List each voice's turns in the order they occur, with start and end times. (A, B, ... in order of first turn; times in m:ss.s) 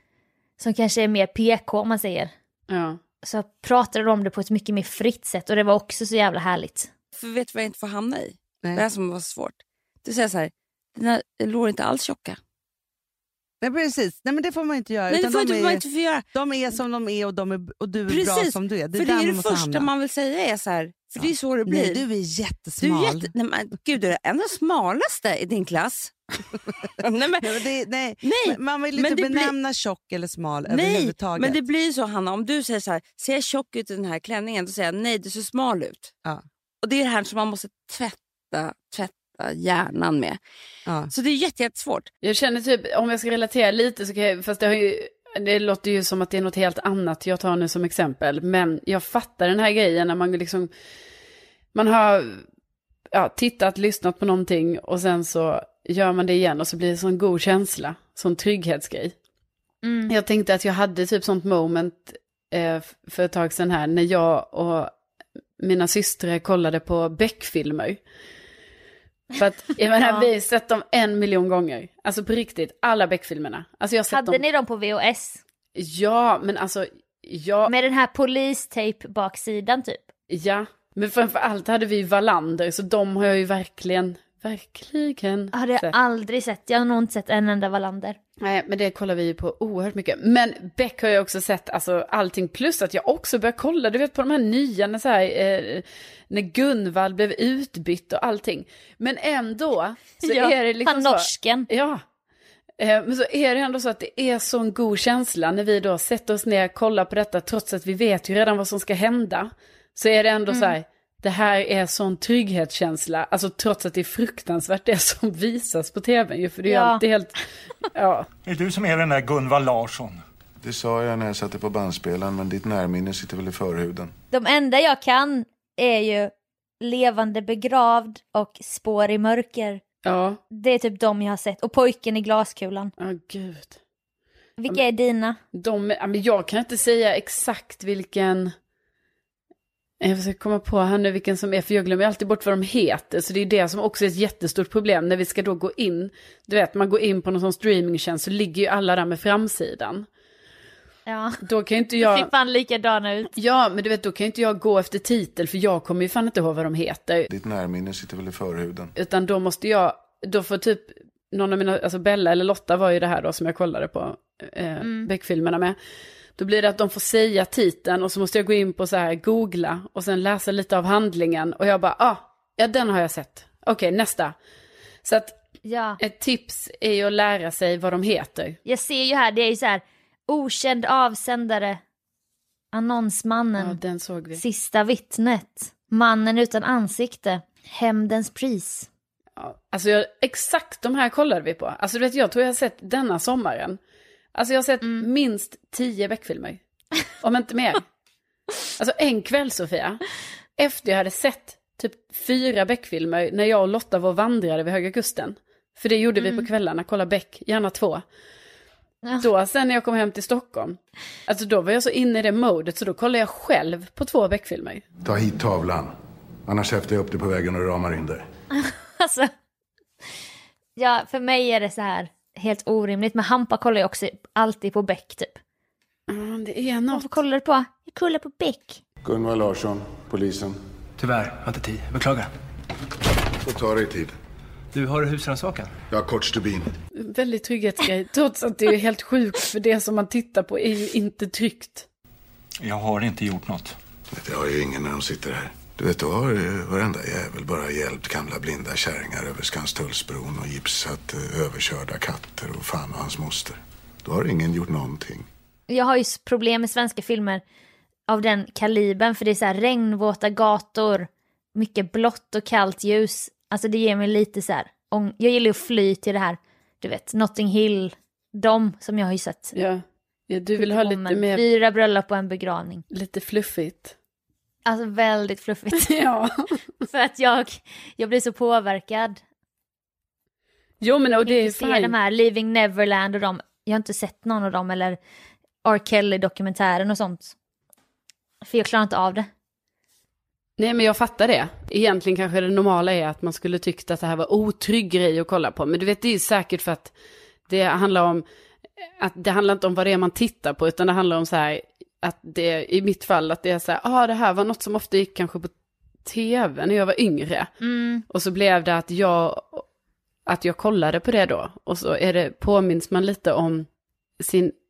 0:00.6-0:02.3 A
0:02.7-0:03.0 B
0:03.2-0:06.9 A
0:07.1-0:12.4 C
0:13.6-0:19.9 D
0:15.1-0:16.2 C
0:18.1-0:22.0 C
0:21.2-0:23.3 D
0:22.8-0:26.1 C
0:27.0-0:27.6 C
0:27.4-0:31.6 D
0:28.2-0:29.5 C
0:30.7-0:36.1 C
0:36.8-0:40.4 C
0:41.1-0:42.1 C
0:42.2-0:50.7 B
0:51.7-0:52.4 B
0:53.1-0:59.1 B
0:59.8-1:00.1 A
1:00.1-1:04.9 B
1:05.6-1:08.0 B
1:09.4-1:14.4 B
1:10.0-1:10.3 A
1:14.1-1:15.4 A
1:15.7-1:17.7 B
1:17.7-1:20.0 A
1:20.3-1:25.9 B
1:25.5-1:28.2 A
1:28.4-1:42.0 B
1:40.2-1:41.7 A
1:42.8-1:57.4 B
1:50.5-1:50.7 A
1:56.7-1:57.0 A
1:57.9-1:58.3 B
1:58.4-2:00.2 E
2:00.6-2:04.1 F
2:04.3-2:09.8 A
2:10.0-2:10.4 B
2:10.5-2:12.9 A
2:13.0-2:13.8 B
2:14.6-2:15.4 A
2:15.5-2:18.5 B
2:20.0-2:30.1 B
2:31.1-2:31.4 A
2:31.4-2:32.3 B
2:32.0-2:33.3 A
2:33.4-2:37.3 B
2:37.3-2:38.9 F
2:39.0-2:45.8 B
2:44.8-2:45.1 A
2:46.4-2:54.4 B
2:55.0-2:55.4 B
2:55.6-2:56.0 A
2:56.0-2:58.6 B
2:58.6-3:01.8 A
3:02.7-3:03.8 A
3:03.6-3:04.4 B
3:04.4-3:08.9 A
3:09.4-3:13.8 B
3:14.4-3:16.6 B
3:17.2-3:17.8 B
3:18.8-3:20.0 B
3:20.6-3:28.0 B
3:26.2-3:26.5 A
3:29.2-3:34.8 B
3:35.0-3:35.9 F
3:36.4-3:38.2 F
3:38.6-3:39.3 A
3:40.8-3:45.4 A
3:46.1-3:47.1 B
3:46.9-3:48.8 A
3:49.0-3:50.6 F
3:51.0-3:52.3 G
3:53.4-3:54.1 F
3:54.7-3:55.7 G
3:55.9-3:56.8 F
3:57.0-4:01.9 B
4:02.6-4:03.8 E
4:04.1-4:15.3 F
4:15.7-4:17.4 A
4:18.1-4:29.5 A
4:29.6-4:31.4 B
4:30.6-4:32.8 A
4:32.9-4:33.9 B
4:34.6-4:36.0 A
4:35.8-4:36.5 B
4:36.9-4:39.2 A
4:40.8-4:41.9 B
4:41.2-4:45.0 A
4:45.6-4:47.3 A
4:48.4-4:49.3 A
4:50.6-4:56.9 B
4:57.5-4:58.2 B
4:59.0-5:05.5 B
5:06.0-5:07.5 B
5:07.6-5:08.0 A
5:08.1-5:09.6 B
5:10.2-5:13.7 B
5:14.2-5:14.5 B